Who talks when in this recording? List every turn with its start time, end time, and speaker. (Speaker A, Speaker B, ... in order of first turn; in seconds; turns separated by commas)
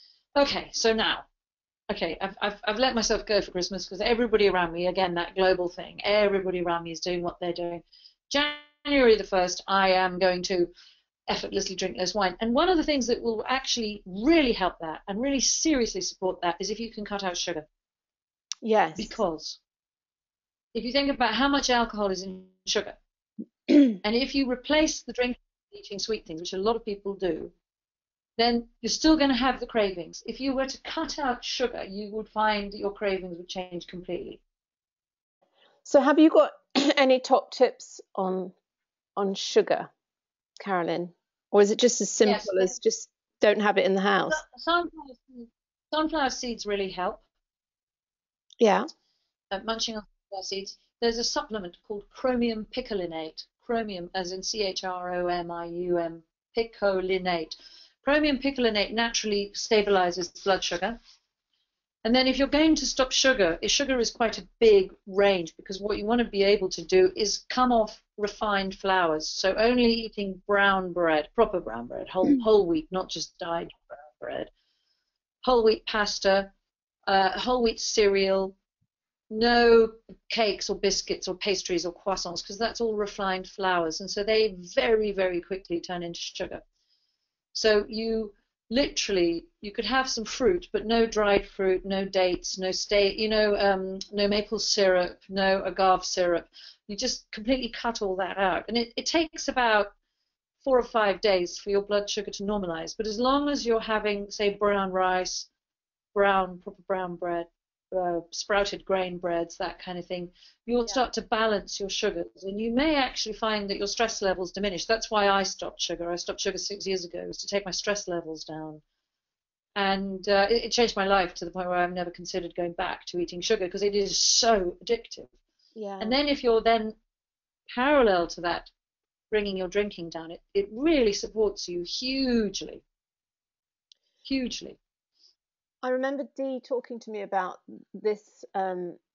Speaker A: 0.4-1.3, Speaker A: 1.9-10.7, Speaker A: 11.3-17.7, Speaker B: 18.6-19.2, Speaker A: 19.0-19.6, Speaker A: 20.7-23.0, Speaker A: 24.0-27.5, Speaker A: 28.4-34.4, Speaker B: 35.9-38.5, Speaker B: 39.2-39.9, Speaker B: 40.6-44.4, Speaker A: 42.2-42.8, Speaker A: 44.3-47.2, Speaker B: 48.6-48.9, Speaker A: 49.5-61.0, Speaker A: 62.0-74.5, Speaker A: 75.4-76.5, Speaker A: 77.1-78.6, Speaker A: 79.3-86.6, Speaker A: 87.5-99.9, Speaker A: 100.6-105.5, Speaker A: 106.2-118.8, Speaker A: 119.8-125.3, Speaker B: 125.8-126.2, Speaker A: 126.0-127.0, Speaker A: 127.7-128.7, Speaker A: 129.3-132.8, Speaker A: 134.2-134.8, Speaker B: 135.8-139.0